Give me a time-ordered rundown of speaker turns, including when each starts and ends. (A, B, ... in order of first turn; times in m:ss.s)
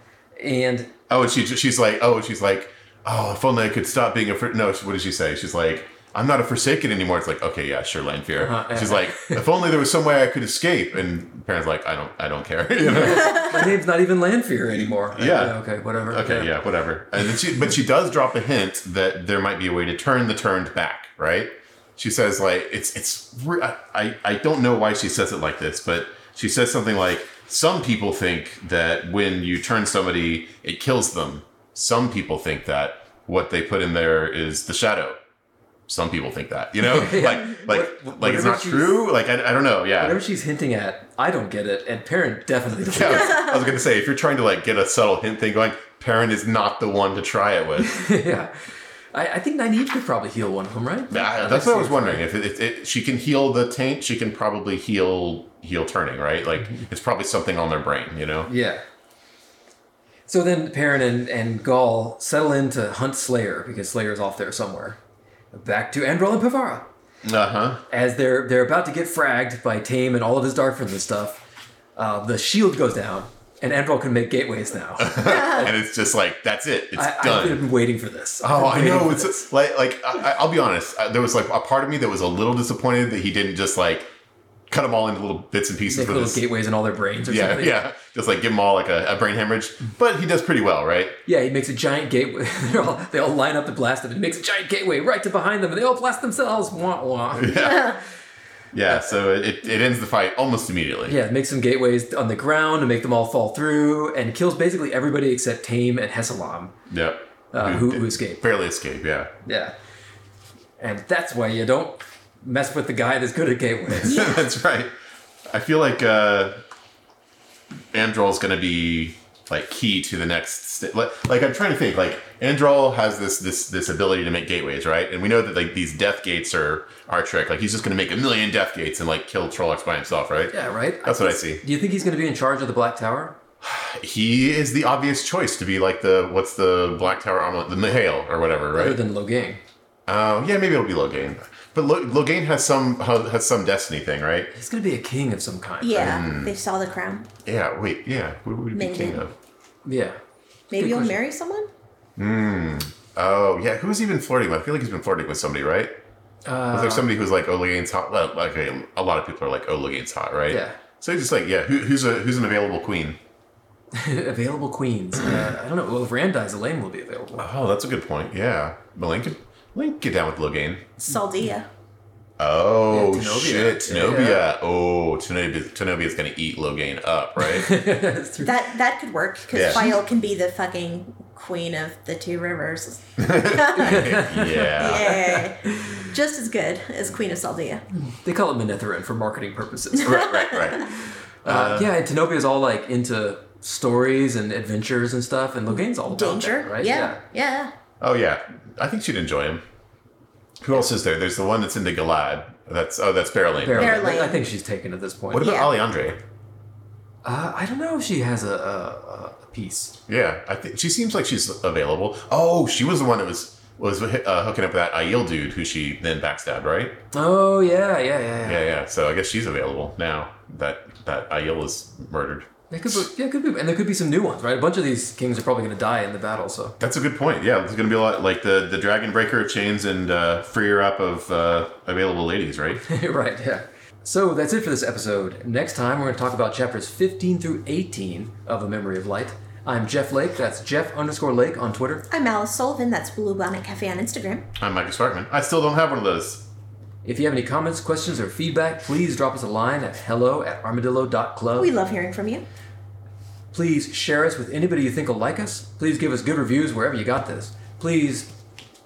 0:00.4-0:00.9 A
0:01.1-0:13.7 B
0:08.4-0:09.4 A
0:12.8-0:16.6 A
0:15.1-0:35.2 B
0:35.9-0:40.2 B
0:36.8-0:39.1 A
0:40.0-0:43.5 A
0:42.9-0:48.0 B
0:47.8-0:48.6 A
0:49.1-0:52.3 A
0:51.1-0:58.5 B
0:58.5-0:58.8 A
1:00.3-1:05.0 A
1:05.5-1:06.9 A
1:07.2-1:07.8 B
1:07.9-1:11.4 A
1:12.0-1:15.8 A
1:15.0-1:17.7 B
1:15.2-1:15.7 C
1:17.0-1:19.4 A
1:18.4-1:24.1 B
1:24.7-1:26.4 B
1:25.9-1:27.8 A
1:27.3-1:31.2 B
1:31.3-1:37.8 A
1:37.4-1:38.0 B
1:38.7-1:41.2 B
1:38.9-1:39.2 A
1:41.1-1:46.8 A
1:46.9-1:49.3 B
1:47.5-1:48.4 A
1:49.5-1:49.7 A
1:50.8-1:54.2 A
1:54.0-1:54.9 B
1:54.1-1:54.4 C
1:55.5-1:56.6 B
1:57.9-2:11.6 B
2:10.5-2:13.4 A
2:13.6-2:19.0 B
2:18.7-2:19.6 A
2:20.1-2:24.5 B
2:24.5-2:26.2 A
2:25.8-2:27.3 C
2:25.9-2:26.5 B
2:27.4-2:29.3 B
2:28.7-2:29.2 C
2:29.8-2:30.2 A
2:30.7-2:31.7 C
2:30.8-2:31.2 A
2:32.2-2:35.9 B
2:36.5-2:37.1 A
2:36.7-2:43.2 B
2:40.5-2:40.8 A
2:43.9-2:47.5 A
2:47.4-2:50.9 B
2:51.0-2:51.7 C
2:52.4-2:57.7 B
2:52.9-2:54.4 A
2:57.4-2:58.6 A
2:58.4-3:04.0 C
2:59.5-2:59.8 B
3:03.2-3:05.2 B
3:03.7-3:06.1 A
3:04.7-3:07.8 C
3:07.9-3:10.9 A
3:10.0-3:10.9 B
3:10.0-3:10.8 C
3:11.4-3:11.9 B
3:11.4-3:17.2 A
3:15.7-3:17.7 C
3:18.0-3:19.6 B
3:20.6-3:24.2 B
3:23.6-3:25.5 A
3:23.7-3:24.4 C
3:25.3-3:26.2 B
3:25.3-3:25.7 C
3:27.2-3:30.0 A
3:30.1-3:37.0 B
3:37.1-3:38.6 A
3:38.4-3:43.0 B
3:42.7-3:46.8 A
3:46.8-3:52.8 B
3:52.9-4:02.1 A
4:02.1-4:04.5 C
4:04.6-4:06.5 B
4:07.0-4:11.7 A
4:11.6-4:12.5 C
4:13.5-4:18.3 A